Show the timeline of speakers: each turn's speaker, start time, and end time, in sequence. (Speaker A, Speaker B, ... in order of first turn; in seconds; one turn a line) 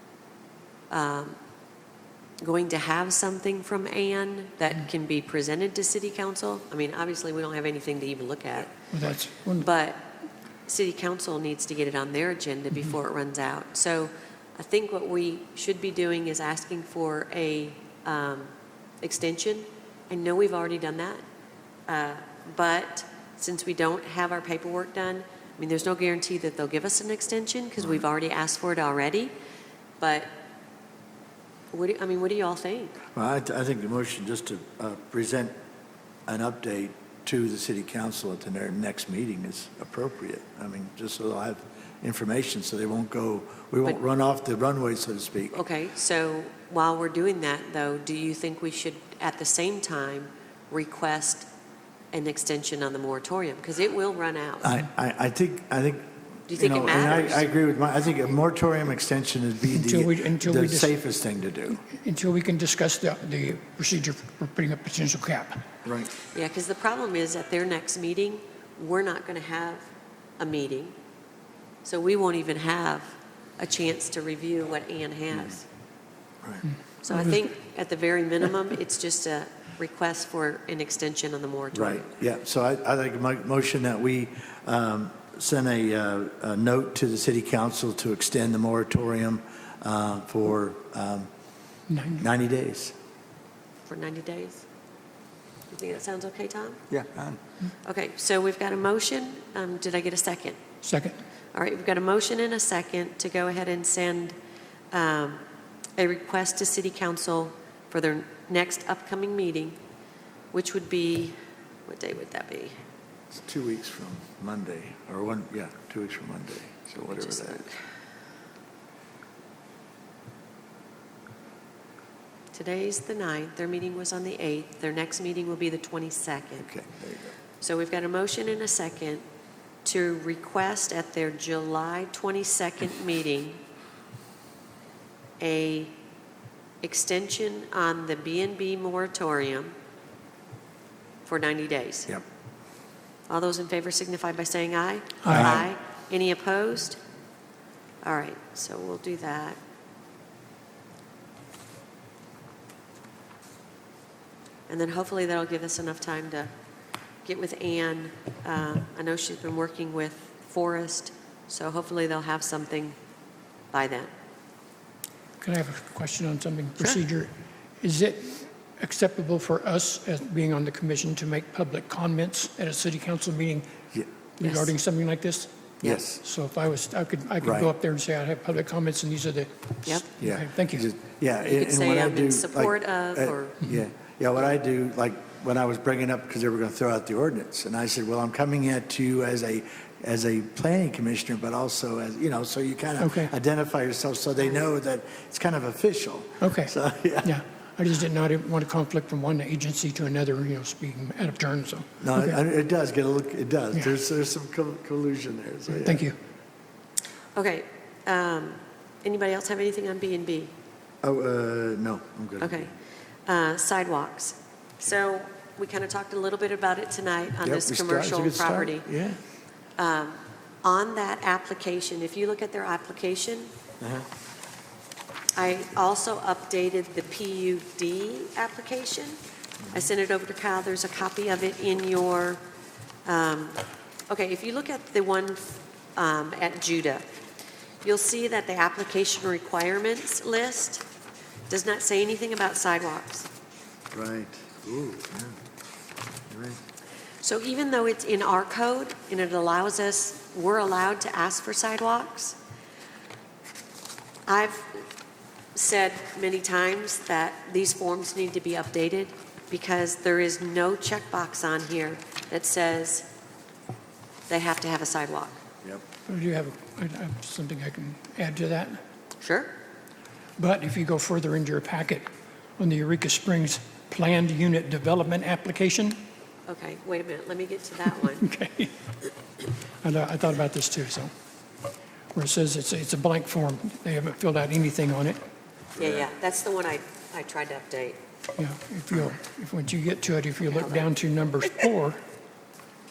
Speaker A: 0.9-1.4
Speaker A: 2.4-8.8
Speaker B: 8.9-9.7
Speaker A: 9.6-10.1
Speaker A: 10.7-18.5
Speaker A: 19.0-21.2
Speaker A: 21.9-29.3
Speaker A: 30.0-30.3
Speaker A: 31.7-33.0
Speaker C: 33.1-35.5
Speaker C: 36.3-45.5
Speaker A: 45.5-51.5
Speaker A: 52.1-54.7
Speaker C: 54.6-61.8
Speaker A: 56.5-57.5
Speaker B: 59.7-60.9
Speaker B: 61.8-65.6
Speaker C: 65.8-66.1
Speaker A: 66.3-69.9
Speaker A: 70.4-71.0
Speaker A: 71.8-75.7
Speaker A: 77.0-82.1
Speaker C: 81.7-91.3
Speaker B: 91.9-92.2
Speaker C: 92.2-92.9
Speaker A: 93.9-94.7
Speaker A: 95.7-96.8
Speaker C: 96.9-97.4
Speaker A: 97.8-100.6
Speaker B: 100.8-101.2
Speaker A: 101.5-104.3
Speaker A: 104.9-105.4
Speaker A: 106.0-109.8
Speaker A: 110.5-112.8
Speaker C: 113.3-117.7
Speaker A: 117.1-117.8
Speaker A: 122.5-126.7
Speaker C: 126.7-127.3
Speaker A: 127.6-129.2
Speaker A: 129.8-133.6
Speaker A: 135.4-135.9
Speaker A: 136.8-139.8
Speaker A: 141.2-142.1
Speaker A: 143.3-147.0
Speaker B: 145.2-145.6
Speaker C: 145.3-145.6
Speaker A: 148.0-149.6
Speaker A: 154.7-156.5
Speaker A: 157.2-163.0
Speaker A: 163.7-164.1
Speaker B: 165.4-173.7
Speaker B: 174.4-180.9
Speaker A: 174.4-174.7
Speaker C: 175.8-176.2
Speaker C: 177.4-177.7
Speaker C: 180.2-197.3
Speaker A: 181.4-183.6
Speaker B: 193.0-193.3
Speaker B: 196.4-196.7
Speaker B: 197.2-202.4
Speaker C: 202.0-206.1
Speaker B: 205.7-206.2
Speaker A: 207.3-210.5
Speaker C: 211.0-212.7
Speaker A: 212.4-212.7
Speaker A: 213.3-218.9
Speaker C: 217.4-219.2
Speaker A: 219.8-223.5
Speaker C: 223.8-224.1
Speaker A: 225.3-229.2
Speaker A: 229.7-232.4
Speaker A: 233.1-237.1
Speaker A: 237.8-240.9
Speaker A: 241.5-243.3
Speaker C: 243.9-245.4
Speaker C: 246.3-246.6
Speaker A: 247.2-252.4
Speaker A: 254.3-254.9
Speaker A: 255.6-263.1
Speaker A: 264.3-265.4
Speaker B: 266.1-268.8
Speaker A: 269.2-269.5
Speaker B: 270.4-276.0
Speaker A: 276.5-278.3
Speaker B: 278.1-278.7
Speaker B: 279.8-281.1
Speaker B: 282.1-285.2
Speaker A: 285.8-288.0
Speaker C: 285.8-286.1
Speaker B: 288.4-292.0
Speaker A: 290.5-290.9